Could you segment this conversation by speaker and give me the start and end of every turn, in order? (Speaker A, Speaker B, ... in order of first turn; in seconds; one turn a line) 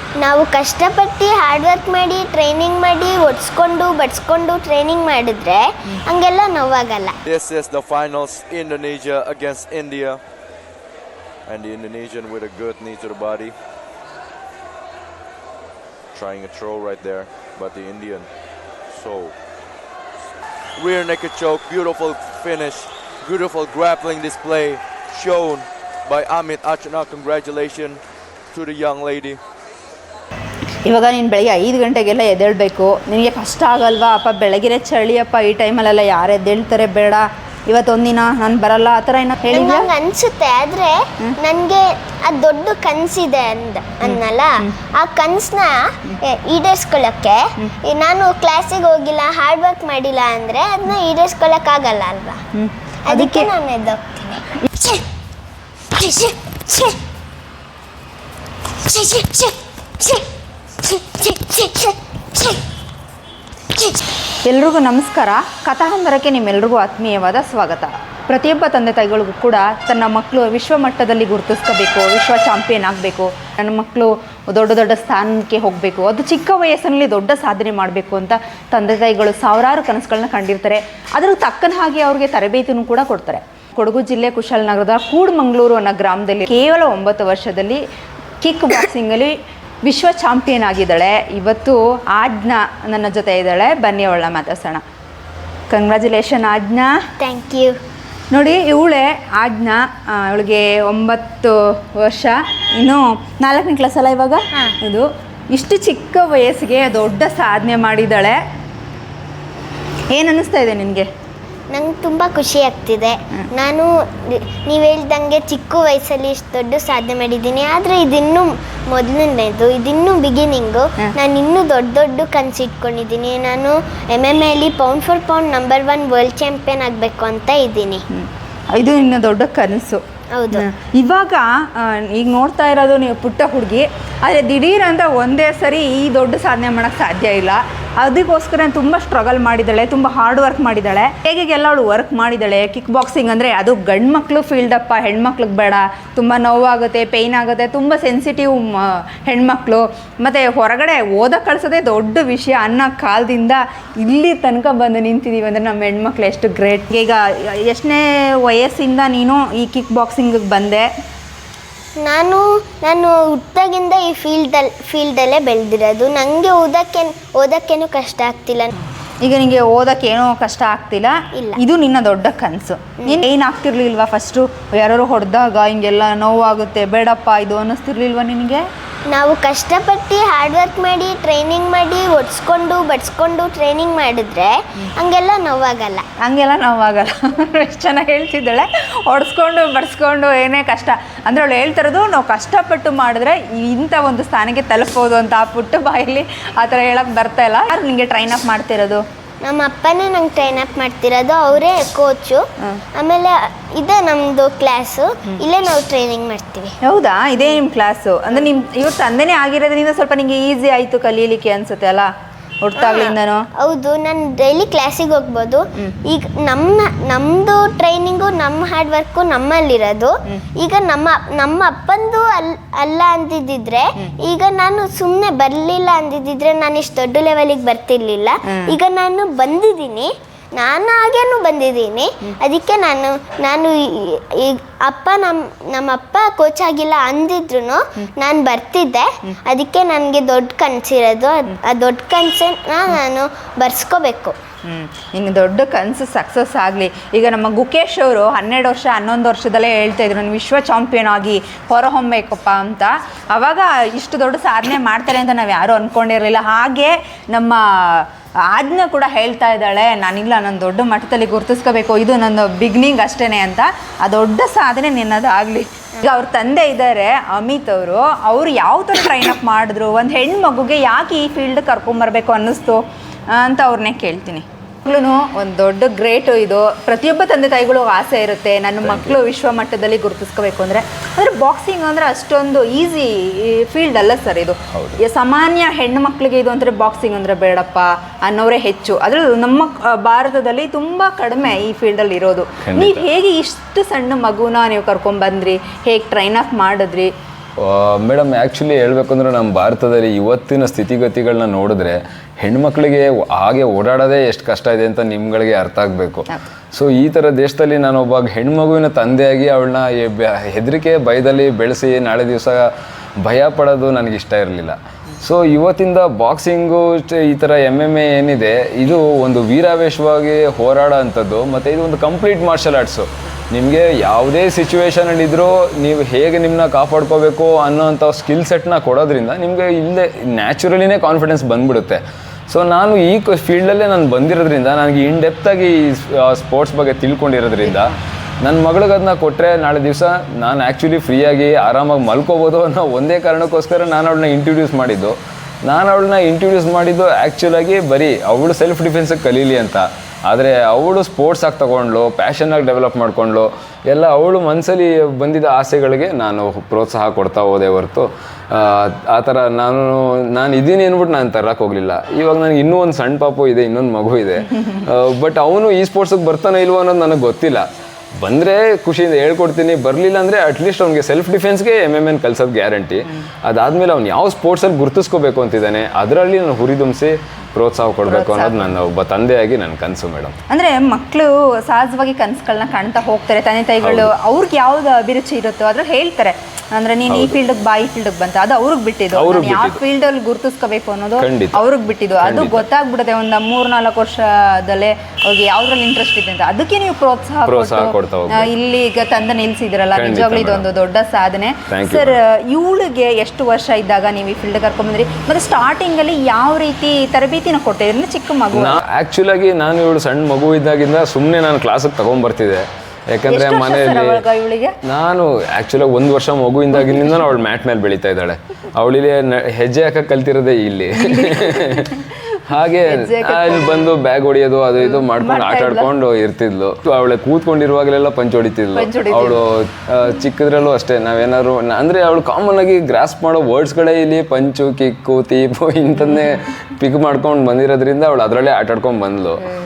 Speaker A: 0.2-7.2
Speaker B: 7.2-10.2
Speaker B: 11.4-13.5
Speaker B: 16.1-18.3
Speaker B: 18.8-19.4
Speaker B: 20.8-28.0
Speaker B: 28.5-29.4
Speaker C: 30.9-39.9
Speaker A: 39.5-52.4
Speaker C: 44.0-44.7
Speaker C: 52.5-53.5
Speaker A: 53.1-55.0
Speaker A: 55.9-57.0
Speaker A: 58.8-60.2
Speaker A: 60.8-62.6
Speaker A: 63.8-64.0
Speaker C: 64.4-87.8
Speaker C: 88.4-94.8
Speaker C: 95.7-97.0
Speaker A: 97.2-97.8
Speaker C: 98.3-108.4
Speaker C: 110.1-111.1
Speaker A: 111.7-128.0
Speaker C: 128.1-130.0
Speaker A: 130.3-130.7
Speaker C: 130.5-160.9
Speaker A: 162.0-168.7
Speaker C: 169.2-178.6
Speaker A: 171.3-171.6
Speaker A: 179.1-186.0
Speaker C: 186.2-199.0
Speaker A: 199.4-206.7
Speaker C: 206.8-212.1
Speaker C: 212.6-213.5
Speaker A: 212.8-244.4
Speaker C: 228.5-228.8
Speaker C: 244.7-297.1
Speaker D: 278.8-279.2
Speaker D: 284.7-285.0
Speaker D: 292.6-293.0
Speaker D: 297.6-367.7
Speaker D: 368.2-380.3
Speaker C: 378.1-378.7
Speaker C: 380.5-408.8
Speaker D: 383.8-384.1
Speaker D: 387.1-387.4
Speaker D: 389.1-389.8
Speaker D: 391.2-391.6
Speaker D: 392.2-392.7
Speaker D: 397.4-398.5
Speaker D: 399.9-400.7
Speaker D: 401.7-402.1
Speaker D: 408.5-414.2
Speaker C: 413.3-414.8
Speaker D: 414.8-439.5
Speaker C: 421.0-423.9
Speaker C: 424.8-425.9
Speaker C: 428.7-429.4